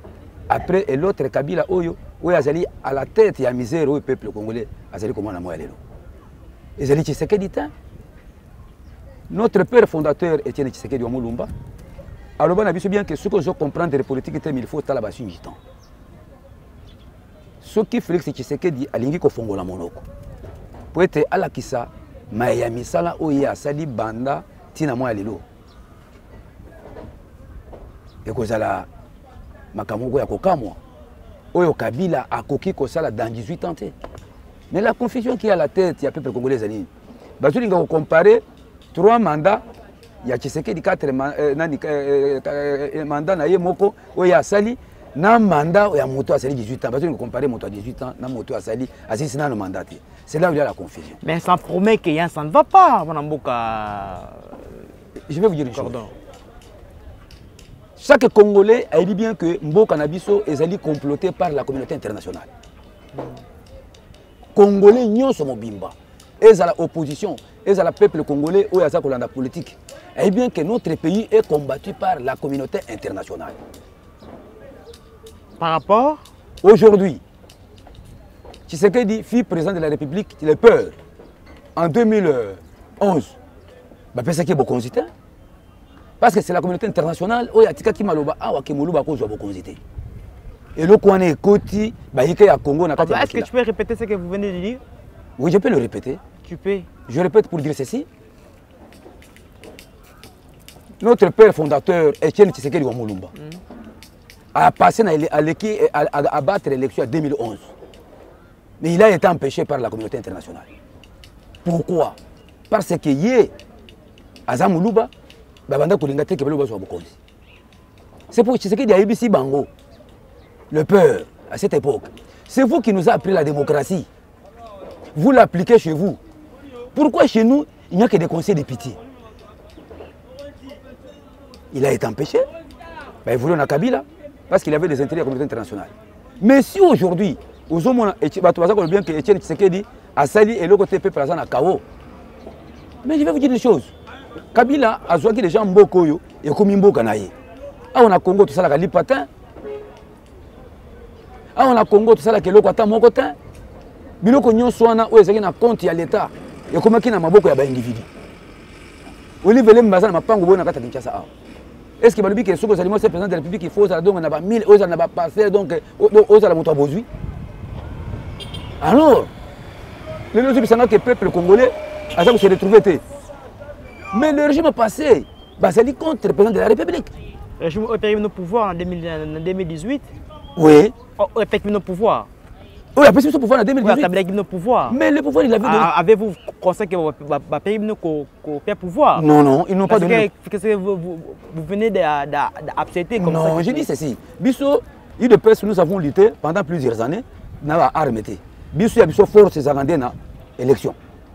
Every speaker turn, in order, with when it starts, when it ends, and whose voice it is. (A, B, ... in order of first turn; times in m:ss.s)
0:00.5-0:05.8 A
0:06.8-0:07.7 A
0:09.3-0:11.5 A
0:12.4-0:15.6 A
0:17.6-0:20.0 A
0:20.9-0:25.4 A
0:28.2-0:28.9 A
0:29.7-0:30.8 A
0:31.5-0:33.9 A
0:34.7-0:36.9 A
0:37.4-0:39.6 A
0:40.2-0:51.2 A
0:51.2-0:54.9 B
0:55.3-0:56.1 A
0:55.7-0:56.1 B
0:58.0-1:02.5 A
1:03.1-1:03.4 B
1:04.6-1:13.6 A
1:15.6-1:16.2 B
1:16.6-1:17.2 A
1:18.7-1:21.0 A
1:21.8-1:23.4 A
1:24.1-1:25.1 A
1:26.2-1:29.8 A
1:30.8-1:33.5 A
1:33.0-1:34.8 B
1:35.4-1:36.2 A
1:36.4-1:36.9 B
1:37.1-1:38.1 A
1:41.0-1:43.3 A
1:44.5-1:47.7 A
1:48.8-1:50.7 A
1:51.6-1:52.2 A
1:52.7-1:53.5 A
1:54.5-1:55.1 A
1:55.7-1:57.2 A
1:58.3-1:59.7 A
2:00.7-2:04.1 A
2:05.1-2:06.2 A
2:06.9-2:09.0 A
2:11.7-2:12.5 A
2:13.2-2:21.8 A
2:23.0-2:23.9 A
2:24.5-2:27.3 A
2:27.9-2:29.3 A
2:31.5-2:33.4 A
2:34.2-2:38.1 A
2:39.4-2:41.3 A
2:42.0-2:47.1 A
2:48.8-2:49.3 A
2:50.3-2:53.0 A
2:54.1-2:57.1 A
2:57.6-3:00.1 B
3:00.6-3:00.9 A
3:01.2-3:02.3 B
3:03.0-3:04.1 A
3:03.8-3:05.0 B
3:04.9-3:05.9 A
3:05.6-3:09.3 B
3:09.1-3:10.3 A
3:09.8-3:13.9 B
3:13.2-3:21.0 A